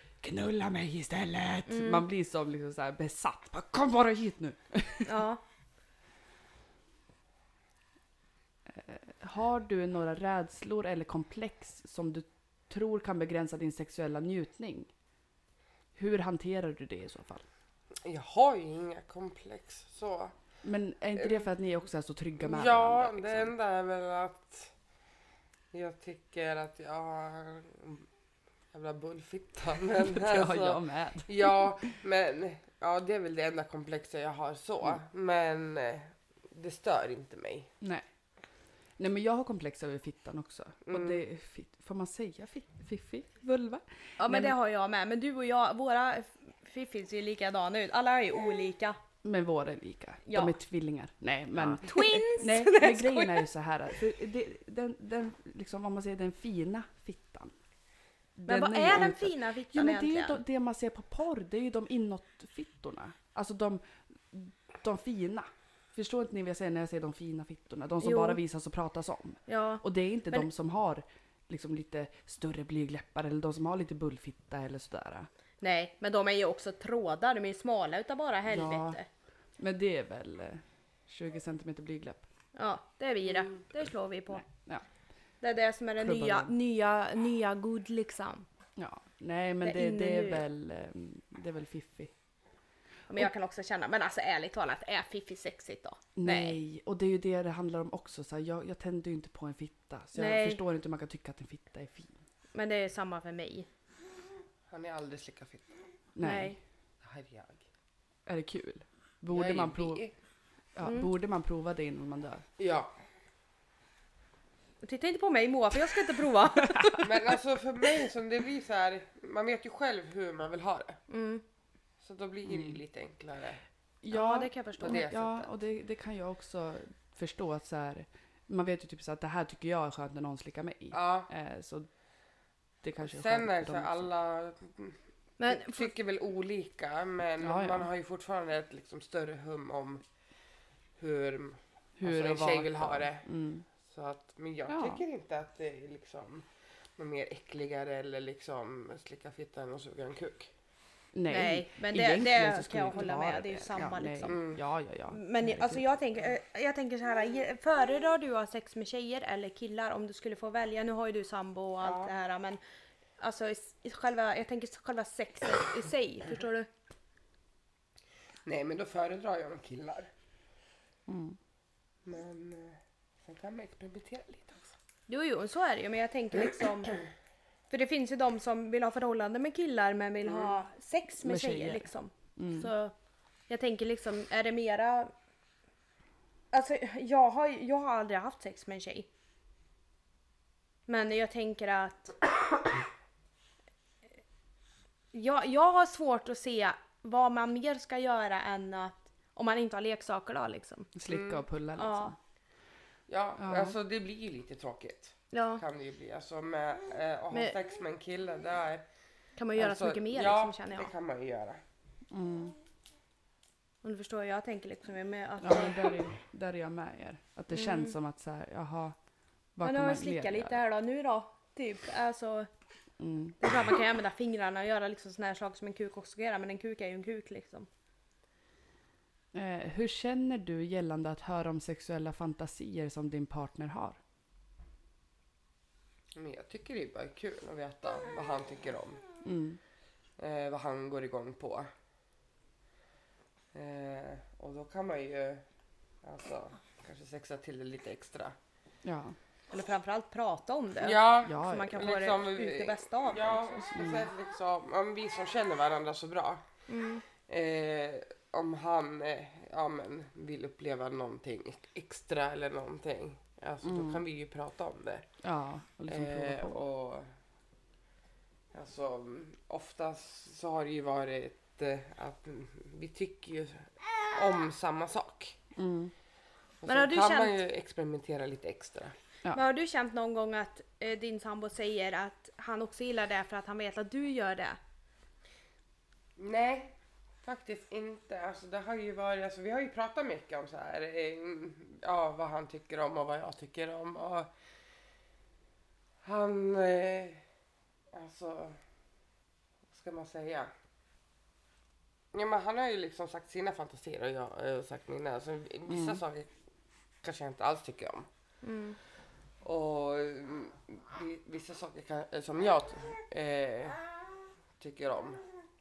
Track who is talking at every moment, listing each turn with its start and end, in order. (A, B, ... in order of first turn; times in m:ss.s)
0:00.2-0:05.2 A
0:01.7-0:02.0 B
0:05.0-0:05.4 B
0:08.7-0:14.9 A
0:16.0-0:17.5 A
0:18.0-0:20.3 C
0:20.6-0:23.5 A
0:21.2-0:21.5 C
0:22.4-0:24.7 C
0:25.7-0:28.1 C
0:28.7-0:37.7 C
0:30.0-0:31.7 A
0:37.8-0:38.1 A
0:39.0-0:44.6 A
0:40.9-0:41.2 C
0:44.2-0:49.0 B
0:49.2-0:57.5 A
0:50.3-0:50.6 B
0:51.6-0:53.5 B
0:58.4-1:15.3 A
0:58.5-1:00.4 B
1:08.0-1:08.4 B
1:09.5-1:10.5 B
1:15.6-1:19.1 B
1:18.5-1:19.0 A
1:19.6-1:22.2 A
1:22.6-1:24.5 B
1:24.3-1:24.8 A
1:25.4-1:28.5 B
1:26.0-1:26.5 A
1:28.8-1:32.1 A
1:29.6-1:30.4 B
1:33.1-1:36.6 B
1:36.2-1:42.1 A
1:40.2-1:40.6 B
1:42.6-1:43.7 B
1:44.7-1:45.8 C
1:46.2-1:46.6 A
1:46.2-1:46.6 B
1:47.0-1:47.6 C
1:48.3-1:50.0 A
1:49.3-1:50.1 C
1:50.8-1:52.4 A
1:50.8-1:51.1 B
1:52.6-1:52.9 C
1:54.8-1:57.1 B
1:56.6-1:57.0 A
1:57.0-2:01.0 C
2:01.1-2:01.4 B
2:02.0-2:03.6 C
2:02.5-2:02.8 A
2:04.0-2:11.9 A
2:04.1-2:05.1 B
2:04.8-2:05.5 C
2:10.9-2:11.3 C
2:12.8-2:14.1 A
2:13.0-2:20.0 C
2:15.4-2:15.9 B
2:17.4-2:17.9 A
2:21.0-2:23.3 C
2:22.0-2:23.7 A
2:23.9-2:26.5 C
2:24.7-2:25.0 A
2:27.0-2:30.5 C
2:31.1-2:35.8 A
2:31.3-2:34.4 B
2:34.3-2:34.6 C
2:35.1-2:42.6 B
2:41.8-2:42.1 C
2:43.2-2:46.7 B
2:48.5-2:50.1 C
2:51.1-2:51.4 A
2:52.0-2:54.7 C
2:55.1-2:57.0 B
2:57.7-3:02.9 B
3:01.2-3:02.7 A
3:03.5-3:05.1 B
3:06.5-3:09.1 B
3:10.9-3:12.2 B
3:15.1-3:20.9 B
3:21.0-3:22.2 A
3:21.1-3:21.4 C
3:21.8-3:22.2 B
3:23.1-3:28.8 C
3:23.4-3:23.8 A
3:25.3-3:25.6 B
3:29.4-3:30.9 B
3:29.6-3:31.6 C
3:32.1-3:32.6 A
3:33.8-3:36.0 B
3:35.4-3:39.0 A
3:37.5-3:38.0 B
3:39.6-3:40.6 A
3:39.6-3:42.5 B
3:43.0-3:43.4 A
3:43.4-3:47.7 B
3:49.3-3:54.0 A
3:56.2-3:59.0 C
3:59.2-3:59.6 A
4:00.2-4:01.7 C
4:03.5-4:05.4 C
4:06.0-4:08.4 C
4:08.8-4:09.2 A
4:09.5-4:13.4 B
4:10.8-4:16.4 C
4:11.2-4:11.8 A
4:13.7-4:14.1 A
4:16.7-4:17.0 B
4:17.3-4:25.1 C
4:23.6-4:24.0 A
4:25.2-4:26.6 A
4:25.9-4:27.1 C
4:28.5-4:35.4 C
4:35.6-4:35.9 A
4:36.6-4:38.9 C
4:36.7-4:37.4 B
4:39.3-4:44.6 B
4:46.2-4:54.3 C
4:56.0-4:57.2 C
4:57.9-4:58.6 C
4:59.7-5:00.5 C
5:02.1-5:06.3 C
5:05.7-5:06.0 A
5:07.0-5:08.1 C
5:08.4-5:08.8 B
5:09.4-5:13.8 C
5:14.6-5:15.2 C